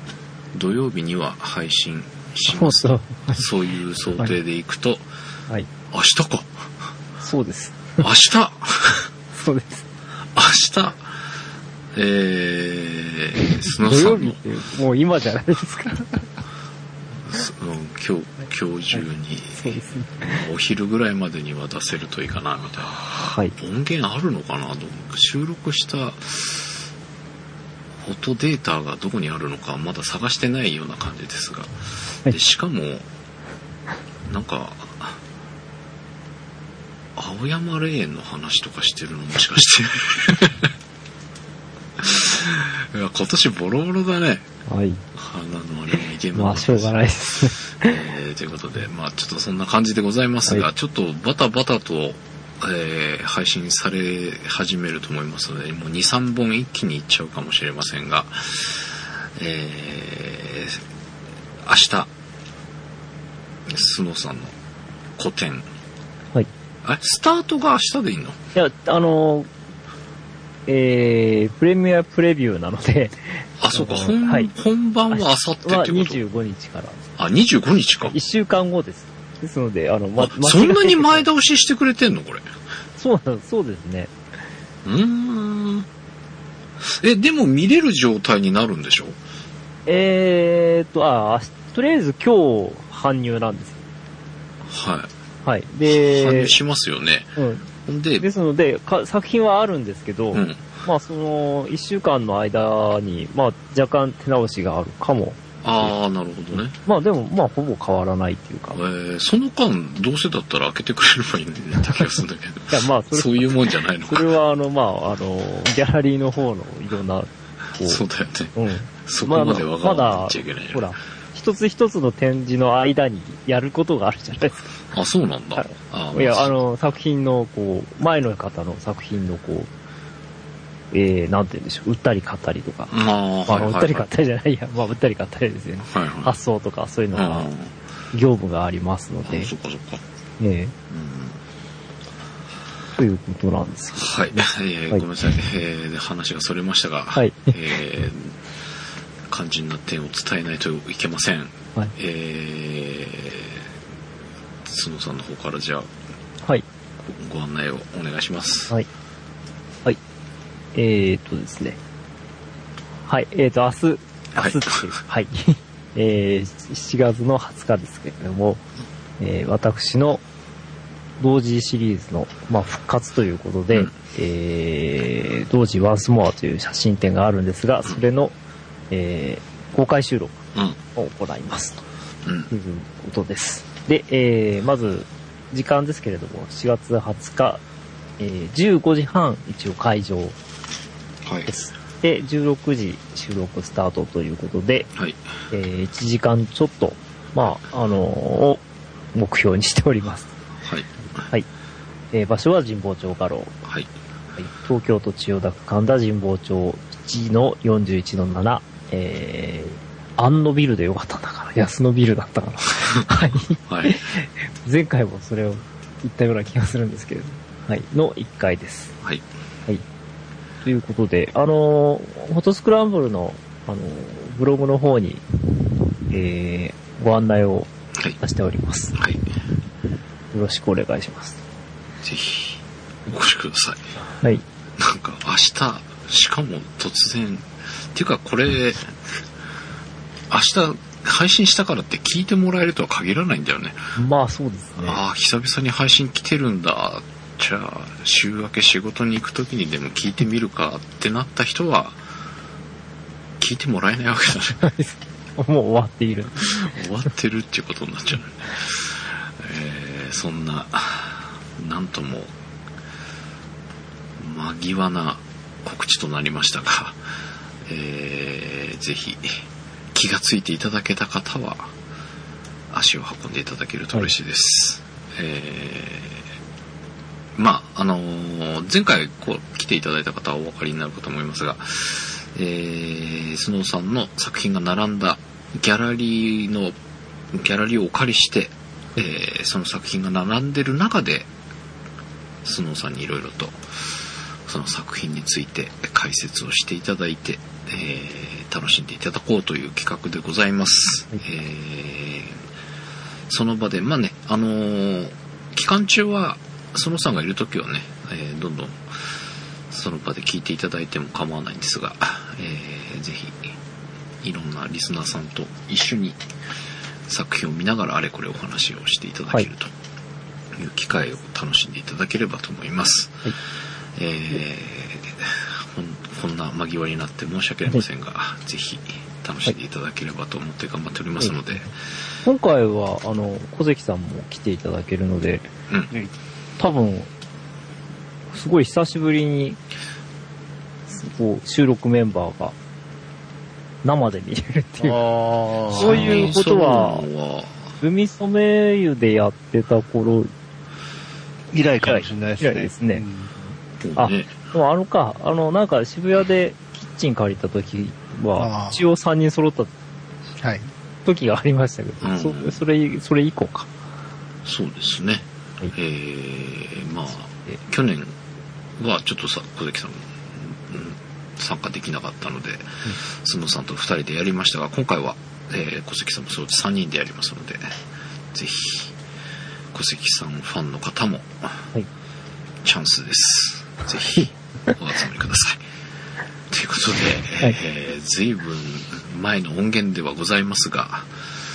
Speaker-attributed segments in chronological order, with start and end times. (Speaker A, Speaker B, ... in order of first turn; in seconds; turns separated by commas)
Speaker A: 0.5-5.0, Speaker B: 2.5-3.4, Speaker A: 5.9-6.5, Speaker B: 7.2-8.1, Speaker A: 8.0-9.1, Speaker B: 9.3-9.8, Speaker A: 10.3-11.0, Speaker A: 11.9-14.4, Speaker B: 13.4-16.2, Speaker A: 17.3-19.8, Speaker B: 19.6-20.4, Speaker A: 20.3-23.0, Speaker B: 23.1-23.5, Speaker A: 23.6-26.7, Speaker A: 28.0-31.7, Speaker A: 32.2-33.0, Speaker A: 34.3-35.2, Speaker A: 37.1-40.7, Speaker A: 42.0-44.5, Speaker B: 44.7-45.0, Speaker A: 45.1-46.9, Speaker B: 46.3-48.0, Speaker A: 47.8-60.8, Speaker A: 61.6-62.1, Speaker A: 63.7-64.5, Speaker A: 65.2-65.7, Speaker A: 66.8-68.4, Speaker B: 68.5-69.5, Speaker B: 70.7-74.5, Speaker A: 73.6-76.2, Speaker B: 75.1-77.0, Speaker A: 77.2-78.2, Speaker B: 78.1-81.3, Speaker A: 80.2-82.5, Speaker B: 83.0-84.1, Speaker A: 84.8-85.8, Speaker A: 86.8-89.2, Speaker B: 89.9-93.8, Speaker A: 94.7-95.1, Speaker B: 95.4-96.5, Speaker A: 95.8-98.3, Speaker B: 97.4-97.7, Speaker B: 98.2-105.9, Speaker A: 100.3-100.6, Speaker A: 105.6-106.7, Speaker B: 106.5-108.8, Speaker A: 108.7-114.3, Speaker B: 112.7-113.5, Speaker B: 114.0-118.0, Speaker A: 117.8-118.5, Speaker B: 118.5-124.7, Speaker A: 119.0-120.9, Speaker A: 124.9-126.5, Speaker B: 125.6-129.7, Speaker B: 130.9-132.9, Speaker A: 132.9-134.0, Speaker B: 133.5-137.5, Speaker A: 135.9-136.3, Speaker A: 137.1-137.7, Speaker B: 138.1-139.5, Speaker A: 139.3-140.0, Speaker B: 140.4-140.7, Speaker A: 140.9-141.4, Speaker B: 142.9-145.1, Speaker A: 143.9-148.3, Speaker B: 147.1-147.5, Speaker A: 149.3-153.6, Speaker A: 154.6-155.9, Speaker A: 157.0-158.7, Speaker B: 160.7-161.8, Speaker B: 163.1-168.6, Speaker A: 164.4-164.8, Speaker B: 169.2-170.2, Speaker B: 171.2-178.3, Speaker B: 178.9-180.4, Speaker B: 180.9-181.8, Speaker A: 182.2-182.5, Speaker B: 182.5-187.6, Speaker B: 188.2-190.3, Speaker A: 191.2-191.5, Speaker B: 191.5-194.9, Speaker B: 195.5-198.6, Speaker B: 199.1-200.3, Speaker A: 200.6-200.9, Speaker B: 202.1-203.5, Speaker B: 204.4-218.9, Speaker A: 213.7-214.0, Speaker B: 220.6-225.2, Speaker B: 226.1-228.9, Speaker A: 228.9-229.2, Speaker B: 230.3-231.4, Speaker A: 232.0-233.8, Speaker A: 234.8-239.1, Speaker A: 240.3-243.8, Speaker B: 243.9-245.0, Speaker A: 244.8-252.0, Speaker A: 253.4-254.6, Speaker B: 254.6-256.8, Speaker A: 256.6-262.3, Speaker A: 264.2-267.0, Speaker A: 267.7-269.3, Speaker A: 269.9-271.7, Speaker A: 272.7-276.2, Speaker A: 277.4-286.8, Speaker A: 287.3-291.3, Speaker A: 292.4-293.6, Speaker A: 294.4-302.4, Speaker A: 303.3-308.8, Speaker A: 309.7-313.5, Speaker A: 314.2-316.2, Speaker A: 317.1-319.7, Speaker A: 320.6-323.2, Speaker A: 323.9-331.7, Speaker B: 331.2-331.7, Speaker B: 332.2-335.5, Speaker B: 336.6-337.1, Speaker B: 338.3-339.6, Speaker B: 340.9-342.5, Speaker B: 343.8-345.0, Speaker C: 344.8-346.3, Speaker A: 345.7-347.6, Speaker B: 345.7-347.1, Speaker B: 347.8-350.3, Speaker C: 351.5-353.5, Speaker B: 351.8-353.0, Speaker A: 353.8-354.3, Speaker B: 353.9-359.7, Speaker C: 358.4-358.8, Speaker B: 361.1-363.7, Speaker A: 362.0-362.6, Speaker A: 364.4-368.1, Speaker A: 368.8-377.7, Speaker A: 378.3-378.9, Speaker A: 379.7-381.6, Speaker A: 382.6-385.6, Speaker A: 386.5-391.1